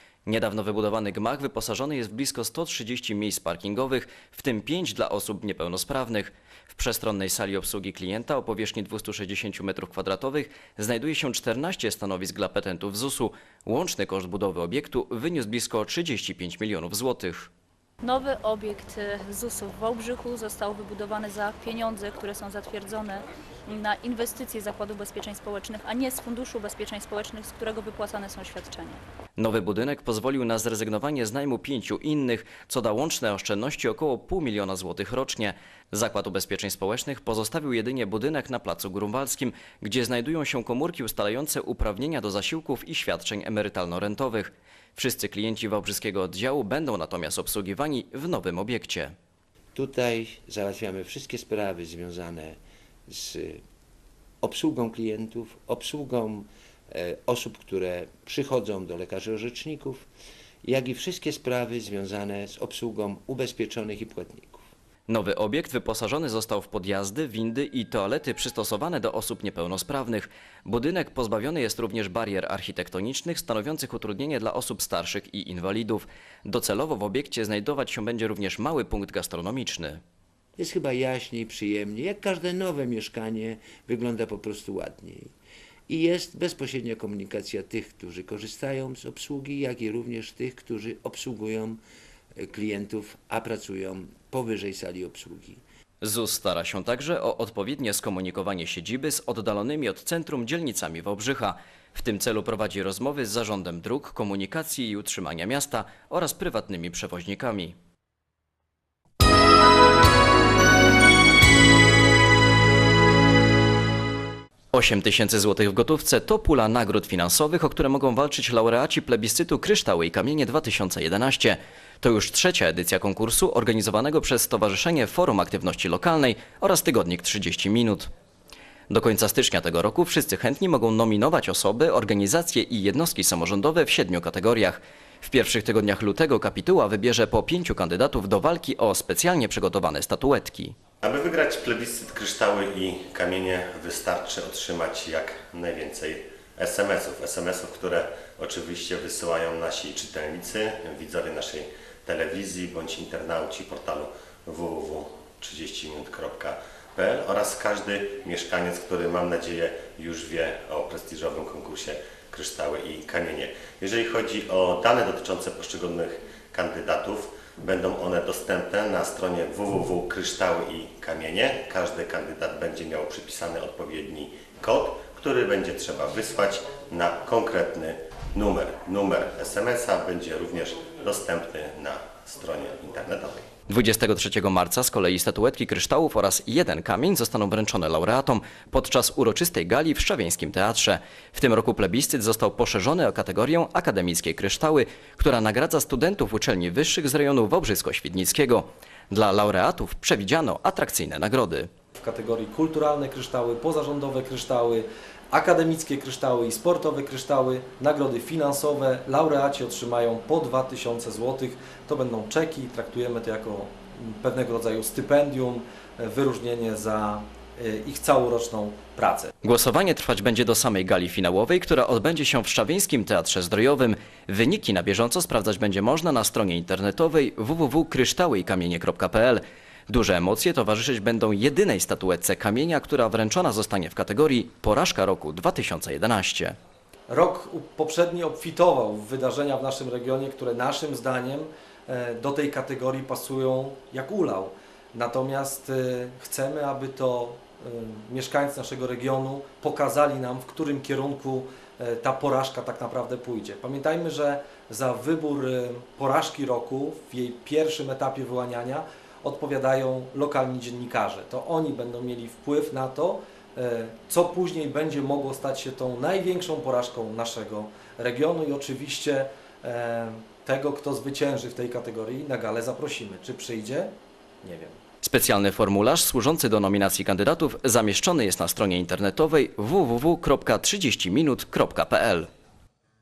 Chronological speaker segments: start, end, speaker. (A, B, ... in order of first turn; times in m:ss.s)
0:00.3-0:17.5 A
0:18.0-0:29.0 B
0:29.4-0:49.2 A
0:49.8-0:53.6 C
0:54.4-1:00.1 C
1:00.6-1:04.6 C
1:05.1-1:20.0 A
1:20.6-1:25.3 C
1:25.9-1:31.8 C
1:32.4-1:35.6 C
1:36.0-1:47.8 A
1:54.7-2:08.1 A
2:08.9-2:20.8 A
2:21.0-3:03.5 D
3:03.7-3:21.7 A
3:22.0-3:39.3 E
3:39.4-3:56.6 A
3:57.1-4:34.8 E
4:35.0-4:42.3 A